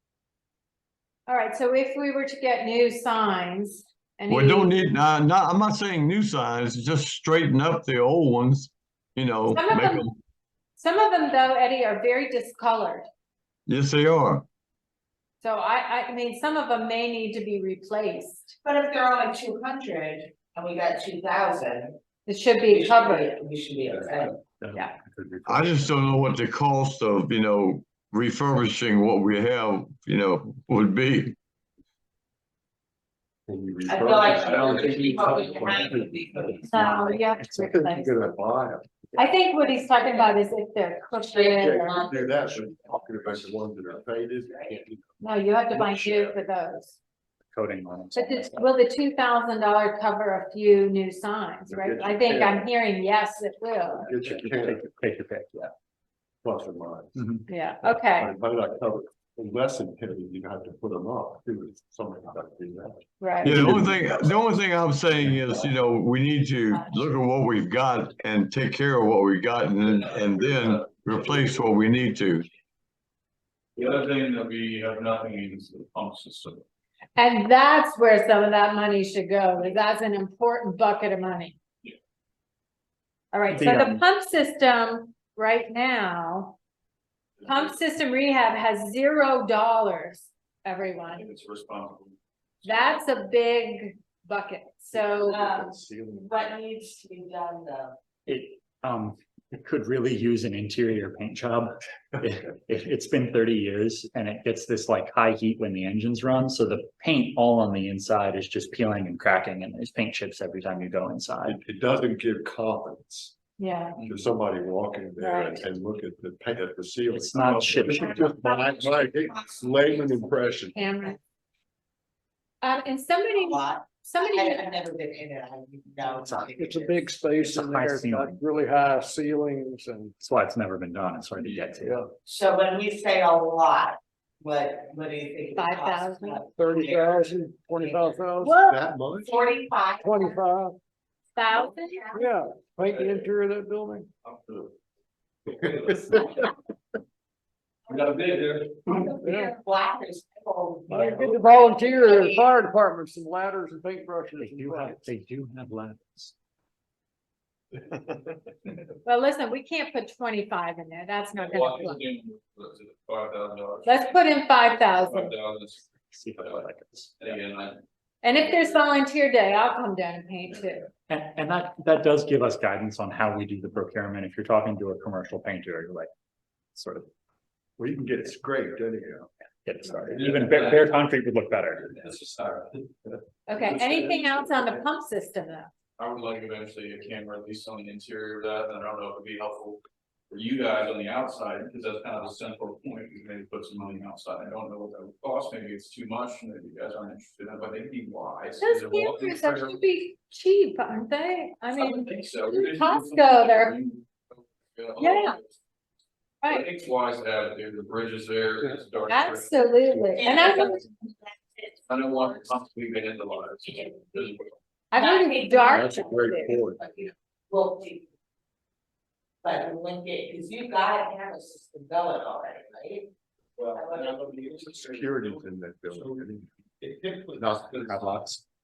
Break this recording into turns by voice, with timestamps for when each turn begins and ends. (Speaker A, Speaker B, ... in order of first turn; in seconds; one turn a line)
Speaker A: 1.3-4.9
Speaker B: 4.3-10.2
Speaker A: 9.5-10.1
Speaker A: 10.8-13.1
Speaker B: 13.7-14.4
Speaker A: 15.4-18.6
Speaker C: 18.6-22.0
Speaker A: 22.2-23.3
Speaker C: 22.5-24.4
Speaker D: 24.6-25.9
Speaker B: 25.4-31.4
Speaker E: 33.5-39.1
Speaker C: 33.9-37.2
Speaker F: 34.3-35.5
Speaker D: 34.7-35.8
Speaker A: 36.6-38.2
Speaker A: 39.2-42.0
Speaker C: 39.7-40.3
Speaker C: 41.2-42.9
Speaker E: 41.6-45.2
Speaker C: 44.4-44.8
Speaker A: 45.2-47.0
Speaker E: 45.8-46.3
Speaker D: 47.5-48.7
Speaker A: 48.1-54.1
Speaker E: 51.7-52.7
Speaker E: 53.9-54.9
Speaker D: 54.1-55.7
Speaker E: 56.4-57.2
Speaker D: 57.2-57.5
Speaker A: 57.5-58.3
Speaker E: 58.1-64.0
Speaker A: 63.2-63.6
Speaker B: 63.4-72.5
Speaker D: 63.5-63.9
Speaker F: 69.8-71.6
Speaker F: 73.8-76.6
Speaker A: 77.2-81.5
Speaker A: 83.3-86.6
Speaker D: 83.5-84.0
Speaker F: 87.4-87.7
Speaker A: 87.4-91.3
Speaker F: 91.1-92.2
Speaker A: 92.6-95.5
Speaker E: 94.9-96.4
Speaker C: 95.2-98.0
Speaker D: 98.3-111.6
Speaker E: 111.4-113.3
Speaker A: 113.6-114.0
Speaker F: 114.0-114.2
Speaker E: 114.0-120.8
Speaker A: 115.2-115.6
Speaker D: 117.1-118.3
Speaker C: 117.9-121.1
Speaker A: 120.7-121.2
Speaker A: 122.6-124.7
Speaker C: 123.3-127.0
Speaker D: 126.3-126.5
Speaker G: 126.4-130.2
Speaker D: 127.4-128.4
Speaker D: 130.2-132.0
Speaker F: 131.4-131.7
Speaker G: 131.8-132.1
Speaker C: 132.2-138.3
Speaker A: 135.5-136.4
Speaker G: 136.6-138.6
Speaker A: 138.4-138.8
Speaker E: 138.6-139.4
Speaker C: 139.2-140.3
Speaker G: 140.0-140.8
Speaker A: 141.3-142.1
Speaker C: 141.5-142.3
Speaker G: 142.1-144.1
Speaker F: 142.9-143.3
Speaker F: 144.2-144.7
Speaker F: 145.4-146.4
Speaker F: 147.9-149.0
Speaker C: 147.9-148.2
Speaker C: 148.8-152.6
Speaker G: 149.1-149.5
Speaker G: 150.9-155.1
Speaker D: 154.4-156.3
Speaker A: 159.0-162.0
Speaker F: 161.3-167.8
Speaker A: 163.8-165.3
Speaker D: 166.1-167.1
Speaker A: 168.2-170.9
Speaker D: 171.1-176.1
Speaker D: 176.7-177.1
Speaker E: 177.8-179.3
Speaker D: 179.6-181.9
Speaker F: 180.1-181.0
Speaker F: 181.8-183.0
Speaker A: 183.5-185.7
Speaker F: 183.5-184.8
Speaker F: 186.0-199.8
Speaker A: 198.6-203.8
Speaker F: 201.7-205.5
Speaker A: 205.0-205.4
Speaker F: 206.5-210.0
Speaker A: 209.0-210.8
Speaker C: 210.1-211.7
Speaker F: 211.9-214.5
Speaker A: 214.9-216.6
Speaker C: 214.9-218.1
Speaker E: 215.7-216.8
Speaker C: 219.4-223.1
Speaker C: 223.7-224.8
Speaker E: 224.5-226.5
Speaker C: 226.8-227.2
Speaker E: 227.3-228.3
Speaker D: 227.8-228.4